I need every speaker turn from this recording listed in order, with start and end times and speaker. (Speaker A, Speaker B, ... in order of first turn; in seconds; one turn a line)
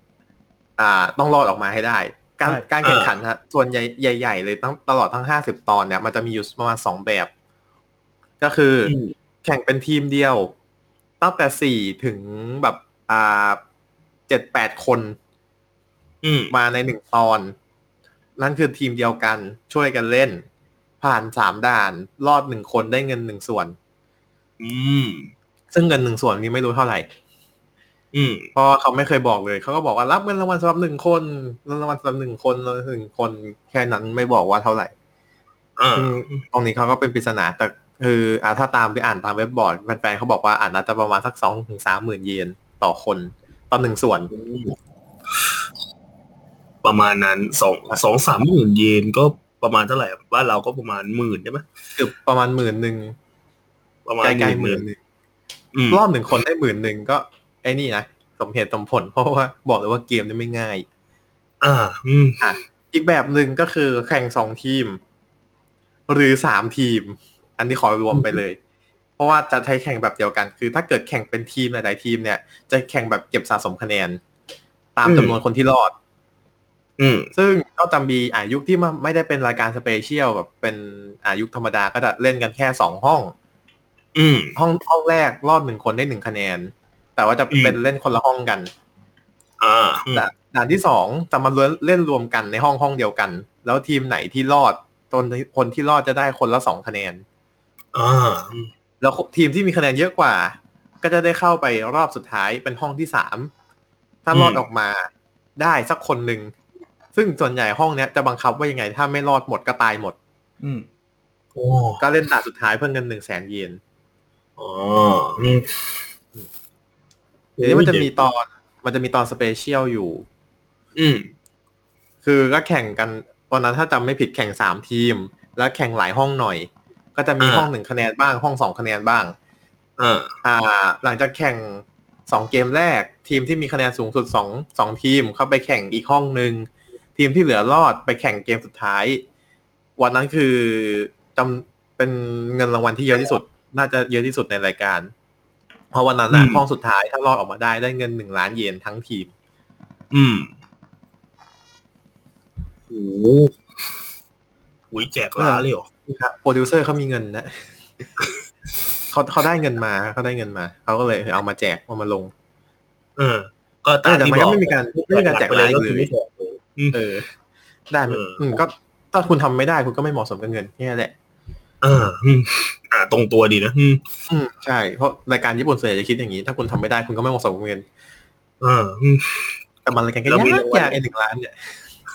Speaker A: 0.8-7.3
Speaker B: 2.8-3.1
Speaker A: 8.4-10.5
Speaker B: 8.8-9.1
Speaker A: 11.2-13.6
Speaker A: 14.3-15.2
Speaker B: 16.2-16.5
Speaker A: 16.5-17.5
Speaker A: 18.4-20.4
Speaker A: 21.0-23.7
Speaker B: 24.6-25.3
Speaker A: 25.7-27.1
Speaker B: 28.1-28.5
Speaker A: 28.5-34.9
Speaker B: 35.8-36.4
Speaker A: 36.0-44.3
Speaker B: 44.3-44.7
Speaker B: 46.8-51.6
Speaker A: 52.0-53.1
Speaker B: 54.0-54.8
Speaker A: 54.2-55.0
Speaker B: 55.7-56.0
Speaker A: 55.9-60.9
Speaker B: 61.6-62.5
Speaker A: 62.4-65.0
Speaker A: 66.1-68.6
Speaker A: 69.2-74.2
Speaker A: 75.0-75.9
Speaker B: 75.0-75.4
Speaker B: 77.0-77.3
Speaker A: 77.3-83.3
Speaker B: 84.1-84.5
Speaker A: 84.5-88.7
Speaker B: 87.5-87.8
Speaker B: 89.6-90.3
Speaker A: 90.1-97.2
Speaker B: 97.9-98.7
Speaker A: 99.0-103.5
Speaker A: 104.2-106.5
Speaker B: 104.3-104.6
Speaker A: 107.1-110.2
Speaker B: 111.5-112.0
Speaker A: 112.0-113.8
Speaker B: 114.6-116.0
Speaker B: 117.6-118.1
Speaker A: 117.6-120.2
Speaker B: 121.0-121.3
Speaker A: 122.2-129.3
Speaker B: 127.4-127.7
Speaker B: 130.0-130.3
Speaker A: 130.4-139.2
Speaker A: 140.0-145.1
Speaker A: 145.9-149.3
Speaker B: 146.3-146.6
Speaker B: 150.1-150.5
Speaker B: 152.9-153.5
Speaker B: 154.9-155.9
Speaker A: 155.4-157.6
Speaker A: 159.1-162.3
Speaker B: 163.2-167.0
Speaker A: 164.0-166.1
Speaker A: 166.9-167.2
Speaker A: 167.9-171.1
Speaker B: 168.1-168.6
Speaker B: 171.8-174.0
Speaker A: 174.3-177.8
Speaker B: 178.6-179.5
Speaker A: 179.8-181.8
Speaker B: 180.3-181.0